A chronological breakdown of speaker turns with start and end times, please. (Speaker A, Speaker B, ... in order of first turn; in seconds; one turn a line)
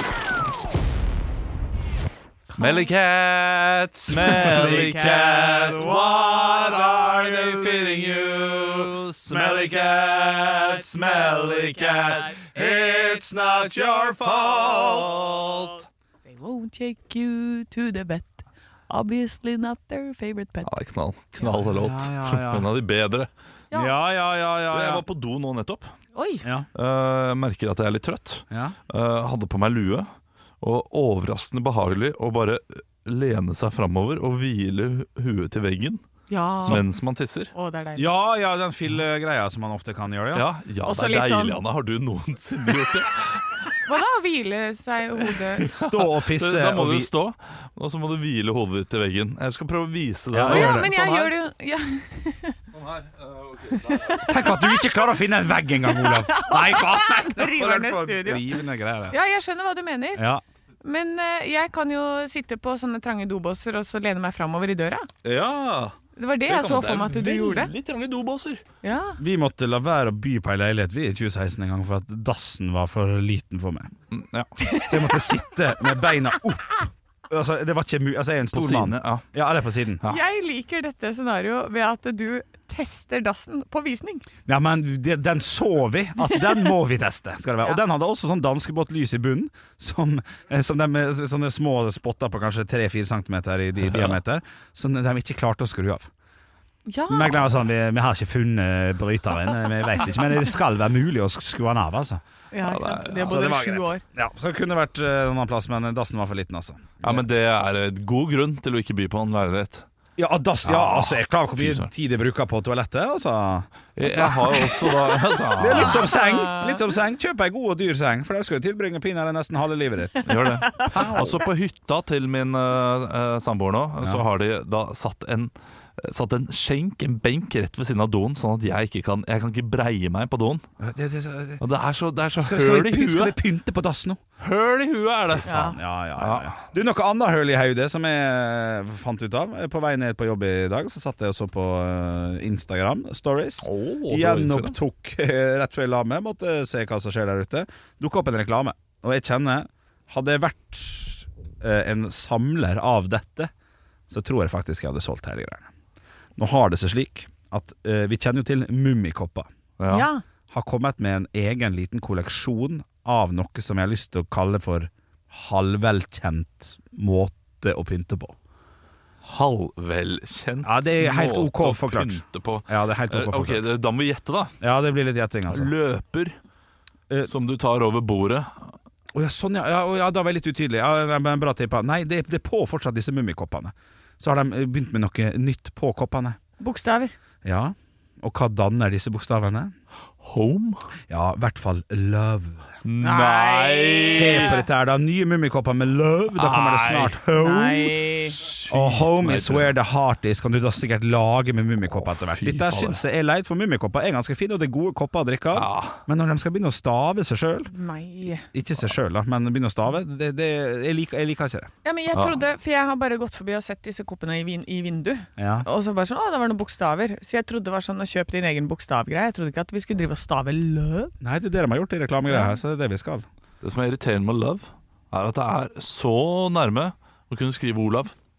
Speaker A: 2.4-15.8
Speaker B: 2.5-2.9
Speaker C: 4.1-15.4
Speaker B: 4.4-5.0
Speaker B: 16.2-20.7
Speaker A: 20.6-23.3
Speaker C: 21.6-22.7
Speaker C: 23.7-25.0
Speaker A: 24.7-25.9
Speaker B: 26.1-26.4
Speaker A: 26.8-30.1
Speaker A: 30.6-36.0
Speaker B: 36.3-36.8
Speaker A: 36.6-37.5
Speaker B: 37.5-38.1
Speaker C: 38.0-40.5
Speaker A: 40.3-43.8
Speaker B: 40.9-41.6
Speaker B: 43.9-45.7
Speaker A: 45.6-51.3
Speaker C: 45.7-47.1
Speaker C: 50.3-50.9
Speaker B: 50.5-52.6
Speaker A: 52.7-54.2
Speaker B: 53.7-55.0
Speaker C: 54.3-59.2
Speaker B: 55.9-58.5
Speaker B: 59.1-60.3
Speaker C: 60.2-60.4
Speaker B: 60.8-65.1
Speaker A: 65.2-66.0
Speaker B: 66.2-67.7
Speaker A: 66.5-68.6
Speaker B: 68.8-69.2
Speaker C: 69.2-73.9
Speaker A: 74.1-74.5
Speaker C: 74.8-80.0
Speaker A: 78.5-79.2
Speaker B: 80.1-84.2
Speaker C: 84.5-96.1
Speaker B: 96.9-97.4
Speaker C: 97.1-102.2
Speaker B: 102.5-104.0
Speaker A: 102.7-103.4
Speaker C: 103.2-107.2
Speaker A: 107.0-109.8
Speaker C: 110.2-120.3
Speaker A: 110.6-111.9
Speaker A: 114.0-116.1
Speaker B: 115.6-116.9
Speaker A: 120.2-130.7
Speaker B: 120.8-121.1
Speaker C: 120.8-121.3
Speaker C: 130.8-131.6
Speaker A: 131.6-133.4
Speaker C: 132.3-134.2
Speaker A: 134.4-136.6
Speaker C: 135.4-153.5
Speaker B: 135.4-135.8
Speaker A: 143.6-144.8
Speaker C: 154.1-155.7
Speaker C: 156.4-159.5
Speaker A: 159.8-160.1
Speaker B: 159.9-160.2
Speaker C: 160.5-168.3
Speaker A: 169.2-174.5
Speaker C: 170.6-173.7
Speaker C: 174.6-175.7
Speaker A: 175.5-176.4
Speaker A: 177.2-178.7
Speaker C: 179.2-186.4
Speaker B: 186.6-187.1
Speaker C: 187.4-189.7
Speaker A: 190.2-190.8
Speaker C: 191.1-192.7
Speaker A: 192.8-194.5
Speaker B: 193.0-194.6
Speaker C: 194.0-197.9
Speaker A: 196.3-197.2
Speaker B: 197.3-198.4
Speaker A: 198.4-199.8
Speaker C: 198.7-207.7
Speaker A: 202.0-203.0
Speaker A: 205.5-206.0
Speaker B: 207.7-208.5
Speaker C: 208.5-211.7
Speaker B: 211.8-221.1
Speaker C: 215.4-215.7
Speaker C: 221.2-223.2
Speaker B: 222.3-222.5
Speaker A: 223.6-228.1